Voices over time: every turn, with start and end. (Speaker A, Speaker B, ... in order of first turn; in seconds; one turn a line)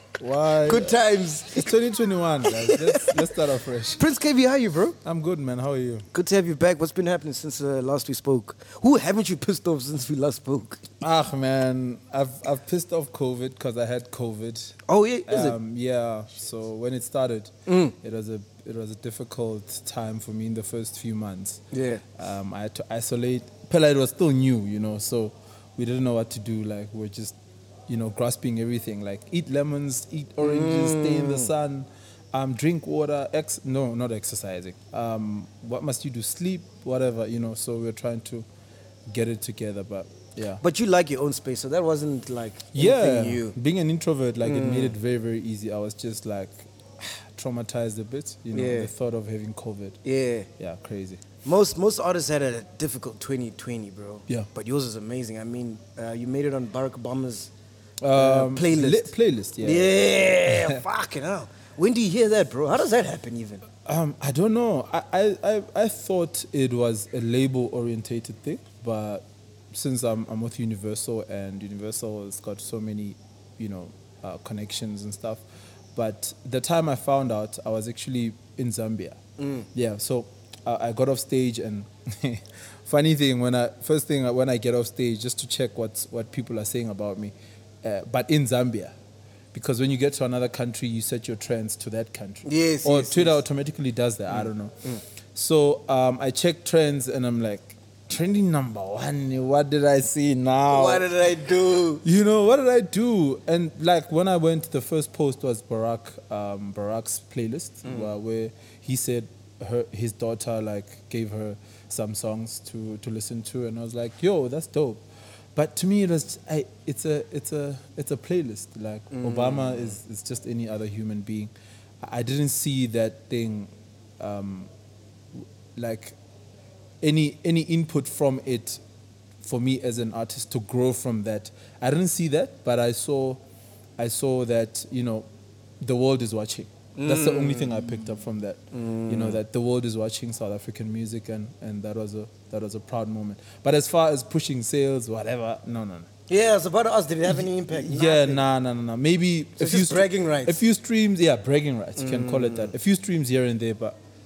Speaker A: 0.2-4.1
Speaker B: 0.7-1.7
Speaker B: 2.6-3.2
Speaker B: 4.0-5.0
Speaker A: 5.0-6.1
Speaker B: 6.1-10.8
Speaker A: 11.0-21.6
Speaker B: 14.9-15.6
Speaker B: 17.7-17.9
Speaker B: 21.7-22.0
Speaker A: 22.2-27.4
Speaker A: 27.9-38.5
Speaker B: 30.4-31.5
Speaker A: 39.1-40.6
Speaker B: 40.6-43.5
Speaker A: 42.7-50.0
Speaker B: 44.4-45.0
Speaker B: 48.5-48.9
Speaker B: 50.0-50.5
Speaker A: 50.6-51.2
Speaker B: 51.4-57.5
Speaker A: 58.0-60.8
Speaker B: 58.1-59.1
Speaker B: 59.6-63.6
Speaker A: 63.9-75.4
Speaker A: 76.0-79.2
Speaker B: 79.4-79.7
Speaker A: 79.7-88.9
Speaker A: 89.5-94.8
Speaker B: 92.5-93.4
Speaker B: 94.3-95.0
Speaker A: 95.3-101.1
Speaker B: 100.7-102.0
Speaker A: 102.0-115.0
Speaker B: 107.8-108.1
Speaker A: 115.5-124.7
Speaker B: 119.1-120.0
Speaker A: 125.8-126.2
Speaker A: 127.0-128.8
Speaker A: 129.4-133.4
Speaker A: 134.0-135.3
Speaker A: 135.8-146.1
Speaker B: 137.0-137.9
Speaker B: 138.7-139.4
Speaker B: 146.3-148.4
Speaker A: 147.2-154.0
Speaker B: 149.6-150.6
Speaker B: 152.0-152.7